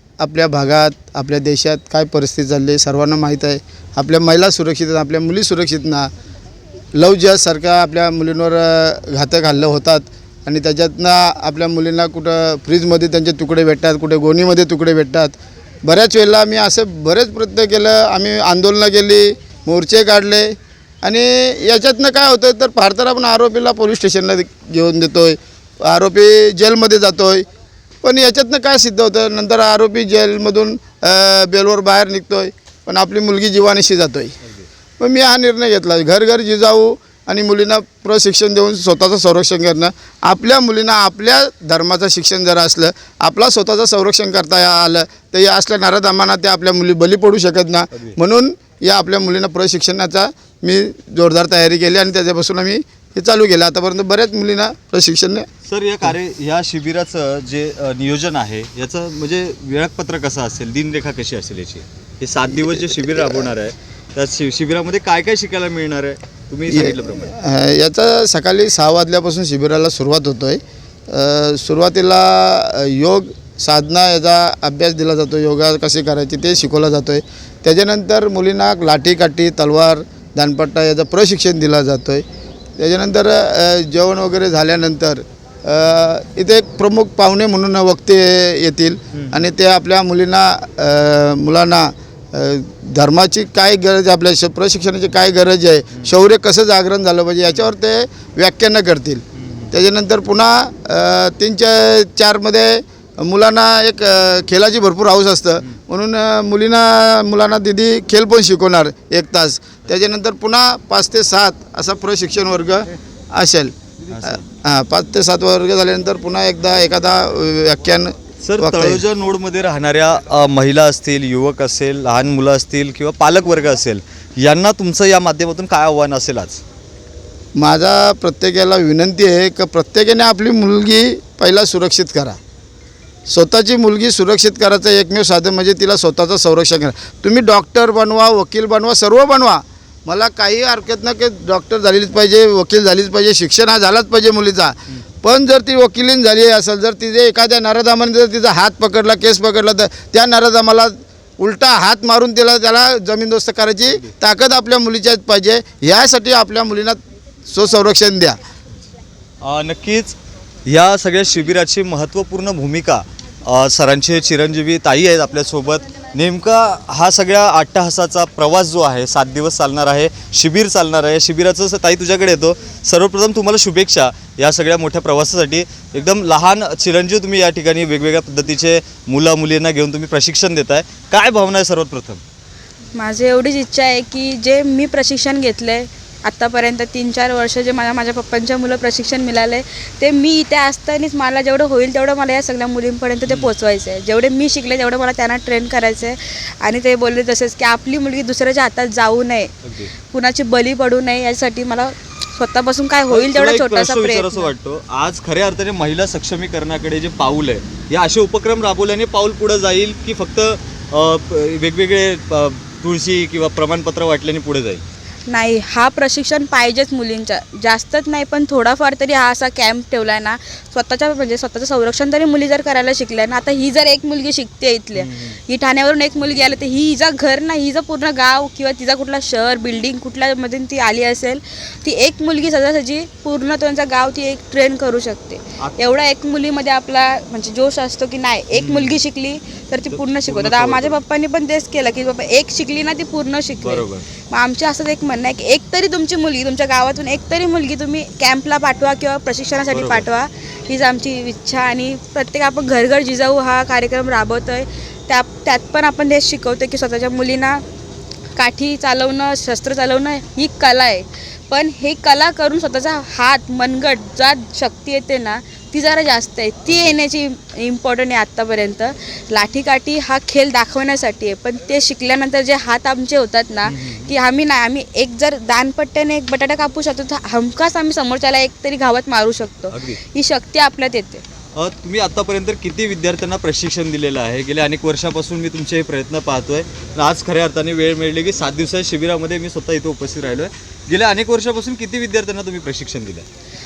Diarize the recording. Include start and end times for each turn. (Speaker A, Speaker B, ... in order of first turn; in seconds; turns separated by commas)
Speaker A: 0.2-6.1, Speaker A: 6.9-27.4, Speaker A: 28.0-34.3, Speaker A: 35.0-55.5, Speaker B: 55.6-67.3, Speaker A: 63.0-63.3, Speaker A: 66.7-82.2, Speaker A: 82.8-113.7, Speaker B: 89.1-89.5, Speaker B: 99.4-99.8, Speaker B: 114.1-114.4, Speaker A: 114.2-119.0, Speaker B: 118.4-126.6, Speaker A: 127.5-132.4, Speaker A: 133.3-158.4, Speaker B: 159.4-182.2, Speaker C: 182.9-199.5, Speaker B: 193.2-193.5, Speaker B: 199.6-199.9, Speaker C: 200.1-204.5, Speaker B: 203.1-214.8, Speaker C: 215.3-257.6, Speaker B: 224.9-225.4, Speaker B: 238.5-239.0, Speaker B: 239.9-241.0, Speaker B: 243.6-244.0, Speaker B: 249.7-250.1, Speaker C: 258.4-281.2, Speaker B: 266.7-267.0, Speaker B: 273.6-274.1, Speaker B: 279.7-280.0, Speaker B: 281.5-293.2